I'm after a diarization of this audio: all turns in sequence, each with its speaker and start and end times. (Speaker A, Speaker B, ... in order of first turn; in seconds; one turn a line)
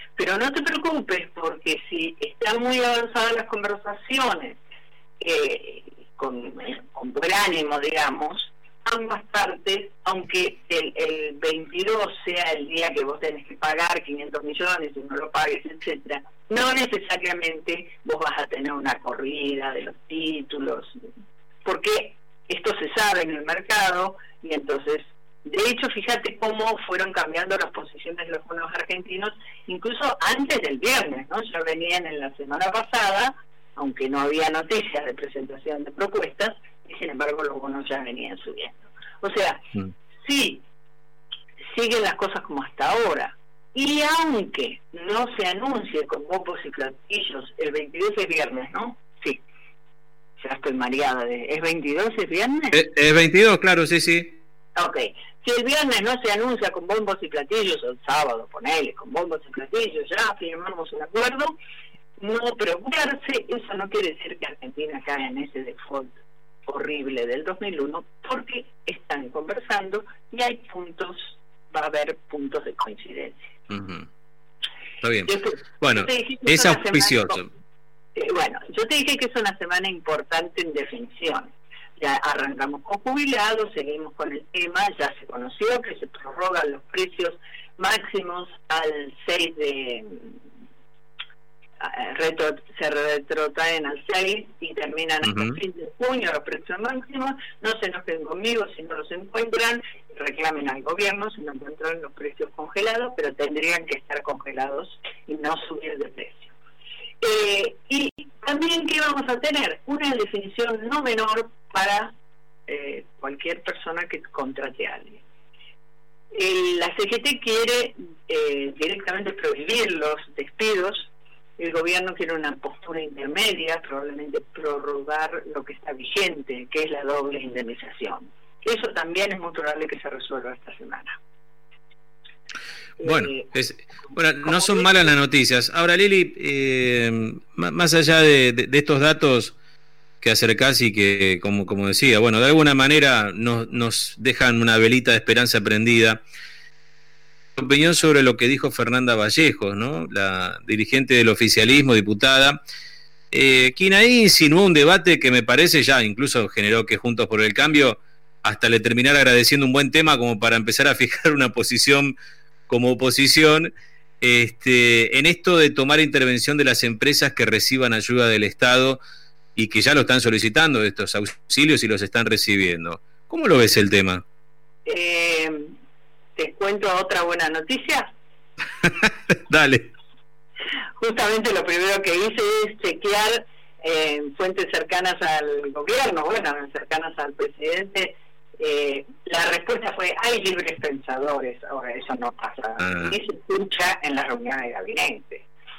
Speaker A: 0.2-4.6
Speaker A: 5.2-21.0
Speaker A: 21.6-39.6
Speaker A: 40.2-40.6
Speaker A: 41.7-49.4
Speaker A: 50.4-52.8
Speaker B: 52.7-54.3
Speaker A: 54.8-61.5
Speaker A: 62.2-73.5
Speaker B: 73.7-74.1
Speaker B: 75.0-75.3
Speaker A: 75.3-77.4
Speaker B: 75.8-77.5
Speaker A: 78.2-90.4
Speaker A: 91.8-106.5
Speaker B: 95.2-95.6
Speaker A: 107.2-112.1
Speaker A: 112.7-115.2
Speaker A: 116.3-131.2
Speaker A: 133.0-133.5
Speaker B: 133.1-139.5
Speaker A: 134.4-135.1
Speaker B: 140.2-146.2
Speaker B: 147.6-152.6
Speaker B: 153.3-162.2
Speaker B: 162.7-163.7
Speaker B: 164.2-169.0
Speaker B: 169.6-174.2
Speaker A: 174.9-175.7
Speaker A: 176.4-178.1
Speaker B: 179.5-179.9
Speaker A: 181.0-195.5
Speaker B: 192.8-193.1